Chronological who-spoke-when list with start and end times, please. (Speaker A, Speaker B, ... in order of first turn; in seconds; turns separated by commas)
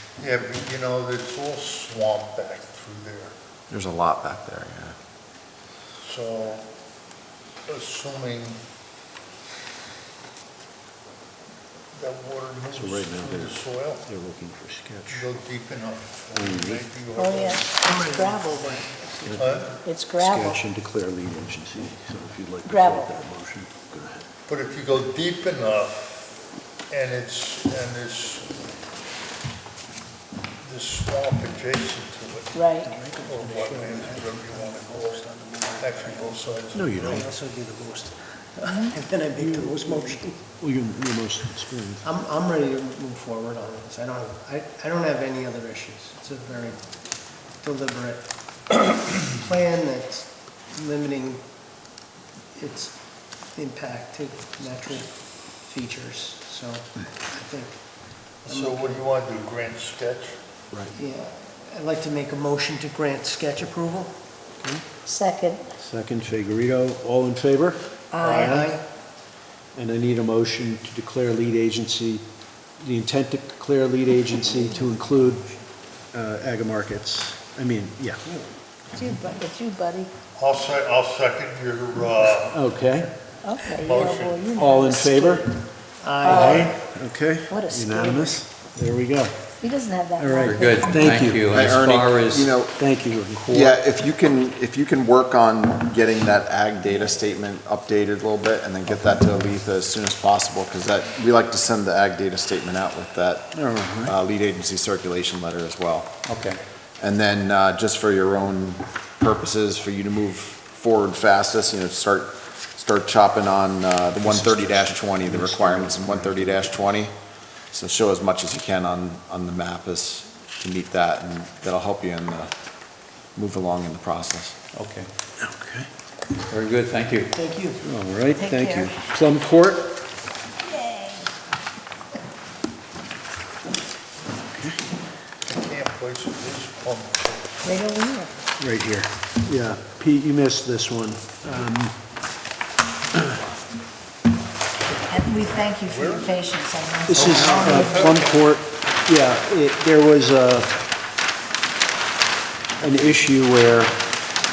Speaker A: 0.2-3.3, Speaker B: 3.7-5.0, Speaker A: 6.0-6.7, Speaker A: 7.7-8.6, Speaker A: 11.9-14.1, Speaker C: 12.7-15.3, Speaker A: 15.1-17.7, Speaker C: 16.3-16.9, Speaker D: 17.1-18.8, Speaker E: 17.8-19.7, Speaker C: 19.2-19.6, Speaker A: 19.3-19.8, Speaker D: 19.8-20.6, Speaker C: 20.1-24.2, Speaker D: 22.7-23.2, Speaker A: 24.5-28.6, Speaker A: 30.6-32.6, Speaker D: 32.5-32.9, Speaker E: 32.7-40.5, Speaker A: 33.1-37.2, Speaker C: 36.7-37.3, Speaker C: 39.4-42.0, Speaker E: 42.0-51.4, Speaker E: 52.5-53.0, Speaker E: 53.5-57.8, Speaker A: 58.4-60.4, Speaker E: 58.5-59.1, Speaker E: 60.9-64.1, Speaker D: 65.0-65.7, Speaker C: 65.8-68.8, Speaker D: 68.1-68.6, Speaker E: 68.2-68.8, Speaker C: 69.7-72.2, Speaker C: 72.8-75.5, Speaker C: 76.1-78.2, Speaker D: 78.9-80.1, Speaker A: 80.4-82.6, Speaker C: 82.5-83.1, Speaker D: 83.4-85.4, Speaker A: 83.8-84.5, Speaker C: 84.5-85.6, Speaker E: 86.0-86.7, Speaker D: 86.2-86.7, Speaker A: 86.2-86.6, Speaker C: 86.3-89.3, Speaker D: 87.5-88.4, Speaker D: 89.6-91.0, Speaker C: 90.2-91.5, Speaker F: 90.4-92.5, Speaker B: 91.5-92.8, Speaker C: 92.7-93.7, Speaker B: 93.5-106.2, Speaker C: 103.5-104.1, Speaker F: 106.2-106.6, Speaker B: 107.0-117.1, Speaker C: 114.2-116.7, Speaker B: 117.7-122.5, Speaker B: 123.3-124.5, Speaker F: 124.7-125.1, Speaker C: 125.4-125.9, Speaker F: 126.4-127.3, Speaker E: 127.3-127.8, Speaker C: 127.8-130.0, Speaker D: 128.3-129.0, Speaker D: 130.7-131.3, Speaker C: 134.5-134.8, Speaker A: 135.4-137.6, Speaker D: 137.6-138.3, Speaker C: 138.6-142.0, Speaker D: 145.1-148.2, Speaker A: 145.8-146.4, Speaker C: 147.1-150.8, Speaker A: 147.1-148.5, Speaker C: 152.8-154.1